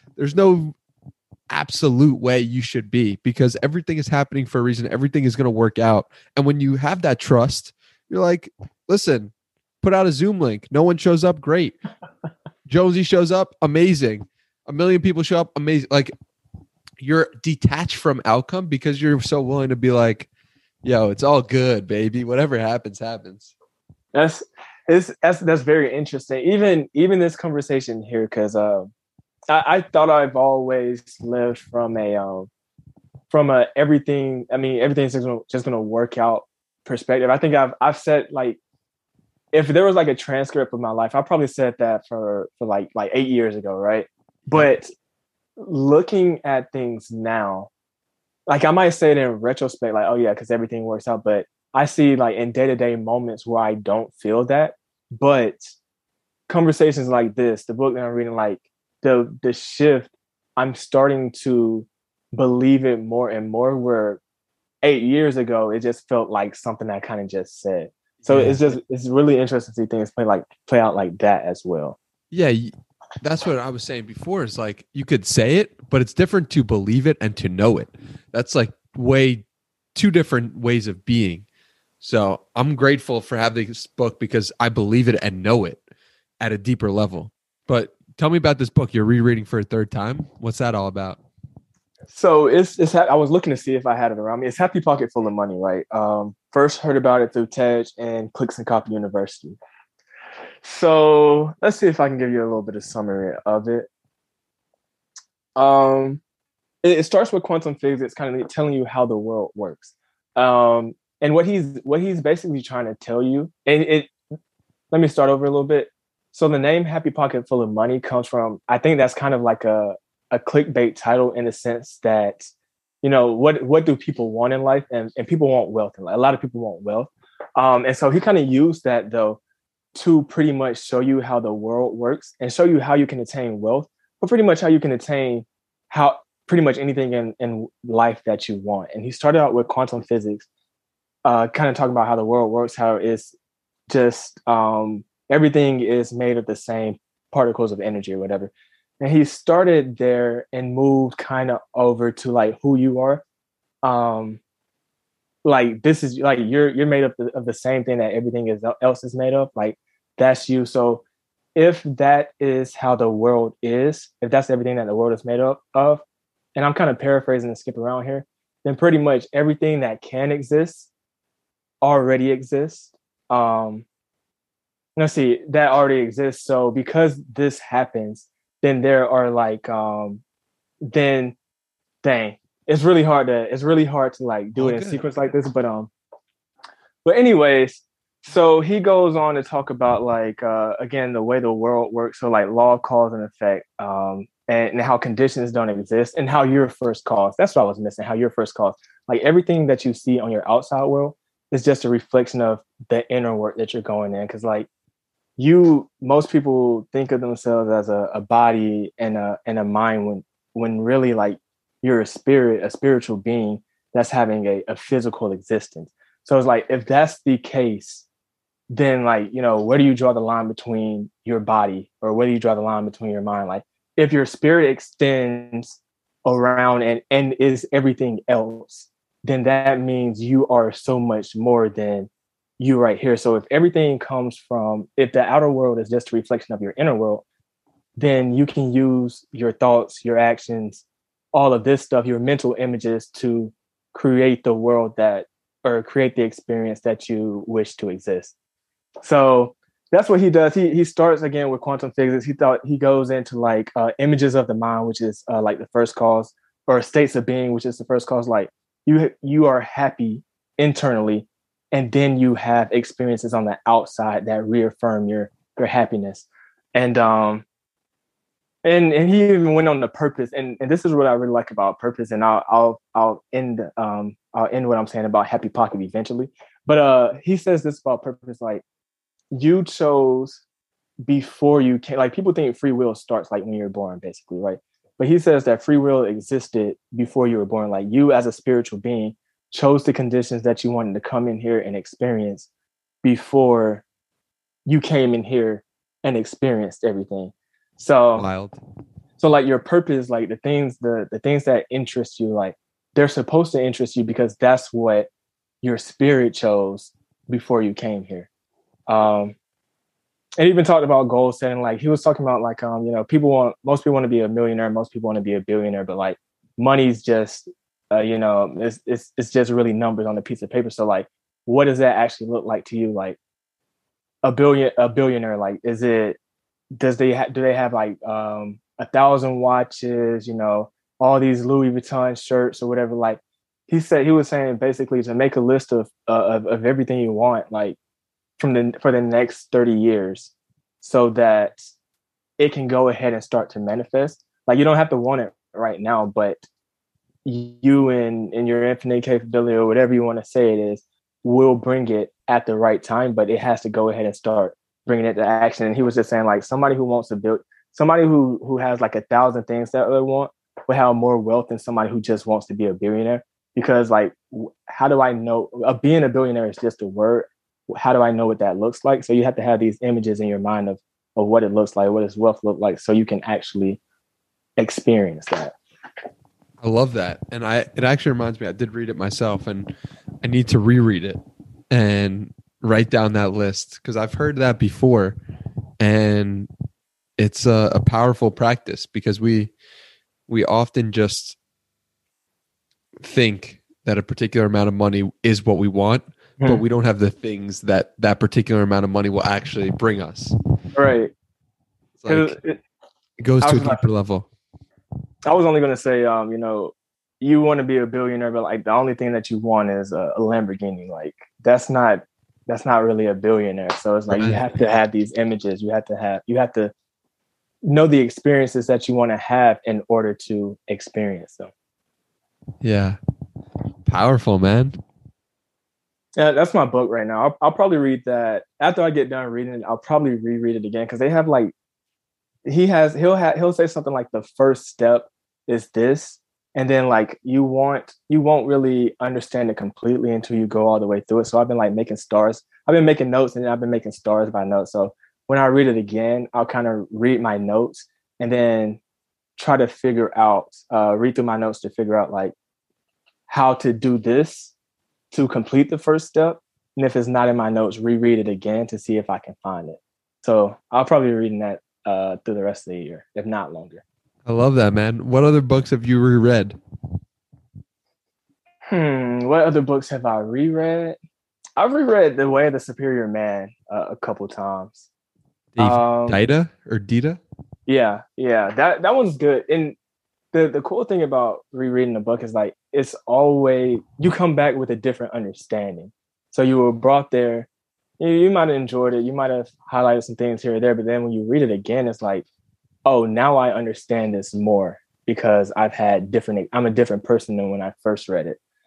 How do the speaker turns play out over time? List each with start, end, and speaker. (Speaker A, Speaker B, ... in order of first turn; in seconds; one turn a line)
Speaker A: 0.2-0.7
Speaker A: 1.5-11.8
Speaker A: 12.7-16.1
Speaker A: 17.0-20.3
Speaker A: 20.8-23.5
Speaker B: 24.1-28.9
Speaker B: 29.5-32.5
Speaker B: 33.3-38.6
Speaker B: 39.5-44.9
Speaker B: 45.6-47.7
Speaker B: 48.5-55.7
Speaker B: 56.5-64.2
Speaker B: 64.8-72.0
Speaker A: 68.2-68.7
Speaker A: 72.3-81.5
Speaker A: 82.0-85.8
Speaker A: 86.4-91.2
Speaker B: 92.1-99.6
Speaker B: 100.6-103.9
Speaker B: 105.5-106.2
Speaker B: 106.8-114.1
Speaker B: 114.9-122.5
Speaker B: 123.0-129.4
Speaker B: 129.9-140.5
Speaker B: 141.2-143.3
Speaker B: 143.9-153.2
Speaker B: 153.8-154.4
Speaker B: 155.4-161.0
Speaker B: 161.6-166.0
Speaker B: 166.5-170.9
Speaker B: 171.8-173.8
Speaker B: 174.9-180.2
Speaker B: 180.8-181.3
Speaker B: 182.0-185.9
Speaker A: 184.6-185.0
Speaker B: 187.0-204.7
Speaker B: 205.4-218.1
Speaker B: 218.7-237.2
Speaker B: 238.0-248.3
Speaker B: 249.0-267.4
Speaker B: 268.6-278.6
Speaker B: 279.3-280.4
Speaker B: 281.0-292.5
Speaker B: 293.0-293.8
Speaker B: 294.6-298.2
Speaker A: 298.1-298.6
Speaker B: 299.2-305.1
Speaker B: 305.6-308.3
Speaker B: 308.9-309.4
Speaker B: 310.4-323.2
Speaker B: 324.2-326.2
Speaker B: 326.8-337.8
Speaker B: 338.4-341.6
Speaker B: 342.4-346.4
Speaker B: 347.2-373.8
Speaker B: 374.6-375.6
Speaker A: 376.6-379.7
Speaker A: 380.2-385.2
Speaker A: 385.8-386.5
Speaker A: 387.2-389.5
Speaker A: 390.3-391.4
Speaker A: 393.0-400.3
Speaker B: 400.7-401.1
Speaker A: 402.0-402.4
Speaker B: 402.1-402.6
Speaker A: 403.2-404.3
Speaker B: 403.4-403.8
Speaker B: 405.2-416.7
Speaker A: 414.1-414.4
Speaker B: 417.6-421.5
Speaker A: 422.6-423.0
Speaker A: 423.9-424.8
Speaker B: 426.2-431.5
Speaker B: 432.4-448.8
Speaker B: 449.4-452.3
Speaker B: 453.3-454.5
Speaker B: 455.1-463.8
Speaker A: 464.2-466.6
Speaker B: 468.7-471.0
Speaker B: 471.6-474.9
Speaker A: 475.6-477.2
Speaker B: 475.6-476.2
Speaker B: 477.7-479.8
Speaker B: 480.3-487.5
Speaker B: 488.0-492.2
Speaker B: 492.8-498.4